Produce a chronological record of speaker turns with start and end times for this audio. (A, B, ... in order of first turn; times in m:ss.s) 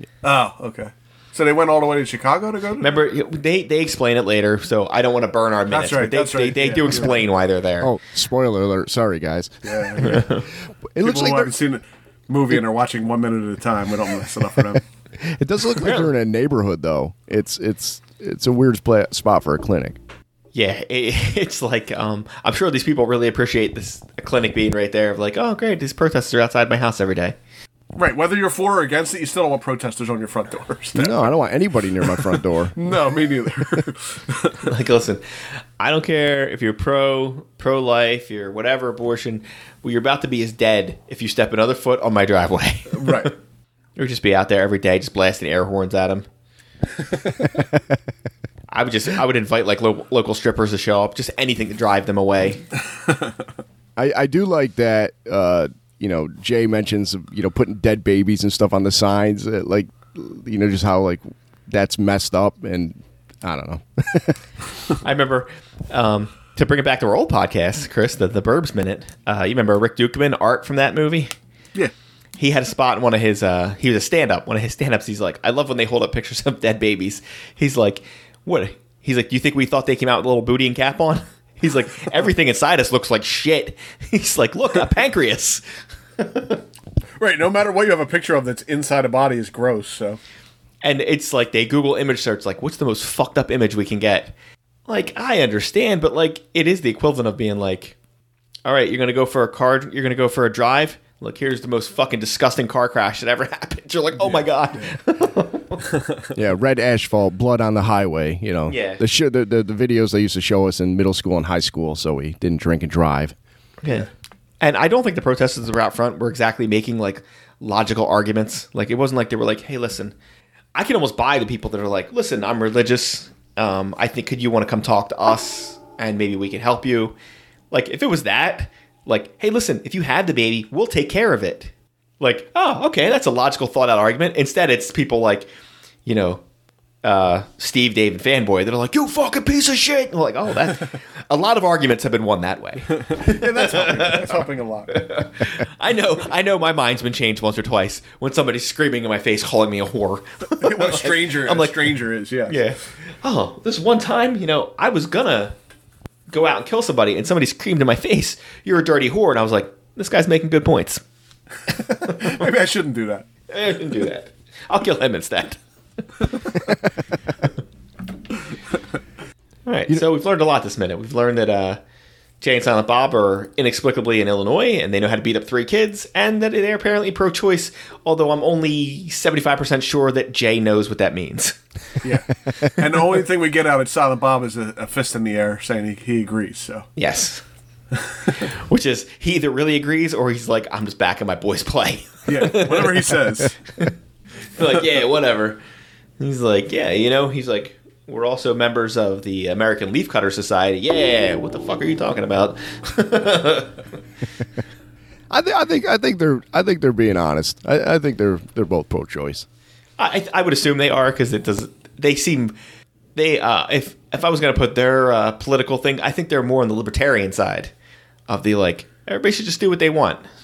0:00.2-0:03.0 A
0:02.8-0:07.9 B
0:05.7-0:07.2 A
0:07.8-0:10.4 C
0:09.6-0:10.2 A
0:10.0-0:10.4 B
0:10.9-0:11.5 C
0:11.0-0:14.8 A
0:15.2-0:20.0 C
0:15.8-0:16.1 B
0:20.5-0:27.4 B
0:27.9-0:31.3 A
0:30.9-0:32.8 C
0:32.7-0:34.6 A
0:34.6-0:35.2 B
0:35.8-0:43.3 B
0:42.9-0:43.3 A
0:44.0-0:46.2 B
0:48.7-0:52.6 B
0:54.0-1:04.4 C
1:05.0-1:11.3 B
1:12.4-1:25.6 B
1:26.2-1:26.6 B
1:27.2-1:30.2 A
1:30.8-1:34.3 B
1:34.9-1:38.0 B
1:38.6-1:45.8 B
1:44.2-1:44.4 A
1:46.3-1:53.3 C
1:48.7-1:49.0 B
1:53.8-1:54.1 B
1:54.6-2:00.1 B
2:00.7-2:07.1 B
2:07.7-2:15.5 B
2:16.0-2:16.4 B
2:17.0-2:31.9 B
2:23.0-2:25.0 A
2:30.6-2:32.6 A
2:32.5-2:35.5 B
2:36.3-2:41.0 B
2:41.8-2:42.4 B
2:41.9-2:43.2 A
2:43.5-2:45.6 B
2:49.6-2:51.8 B
2:52.4-3:01.6 B
3:02.0-3:06.9 A
3:07.0-3:07.4 B
3:08.5-3:13.2 B
3:12.3-3:13.6 A
3:14.5-3:15.6 B
3:16.2-3:23.8 B
3:25.3-3:29.4 C
3:30.0-3:32.5 B
3:33.1-3:37.7 B
3:38.3-3:40.2 B